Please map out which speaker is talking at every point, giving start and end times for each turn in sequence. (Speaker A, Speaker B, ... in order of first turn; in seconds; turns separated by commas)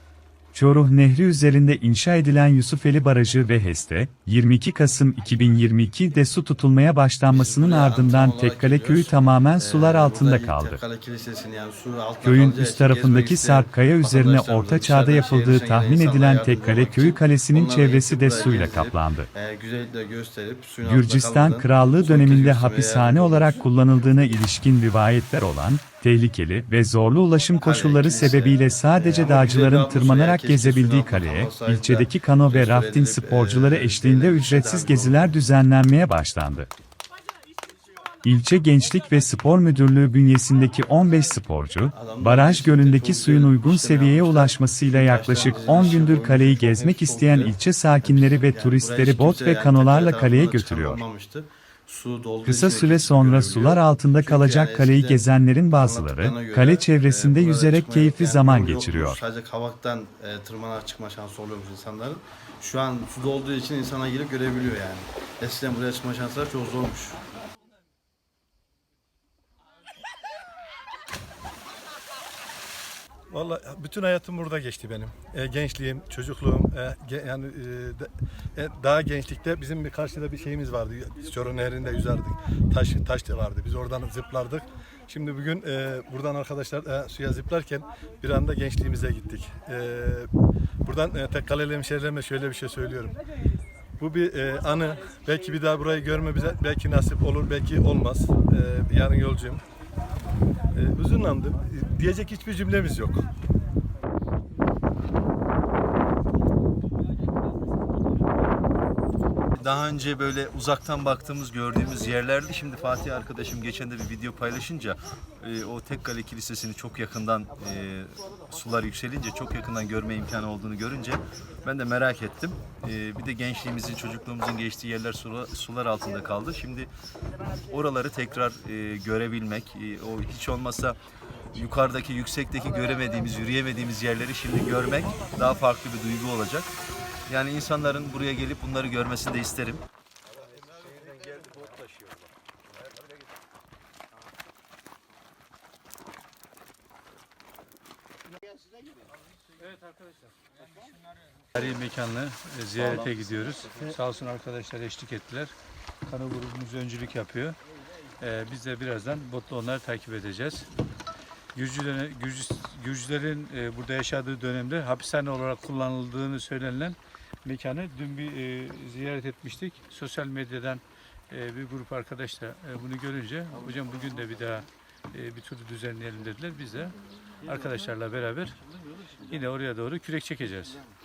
Speaker A: 0.5-10.8, Speaker B: 7.3-23.7, Speaker A: 12.2-19.3, Speaker A: 20.8-36.7, Speaker B: 27.6-35.5, Speaker A: 38.2-51.0, Speaker B: 41.9-67.2, Speaker A: 52.4-59.2, Speaker C: 73.3-90.3, Speaker C: 90.8-93.2, Speaker C: 94.0-99.6, Speaker C: 100.7-103.3, Speaker D: 109.5-126.9, Speaker D: 127.7-131.0, Speaker D: 131.5-136.7, Speaker D: 137.3-139.8, Speaker D: 141.3-142.1, Speaker E: 151.5-155.5, Speaker D: 152.8-153.9, Speaker E: 156.1-157.6, Speaker E: 158.2-160.7, Speaker E: 161.5-178.6, Speaker E: 179.3-180.8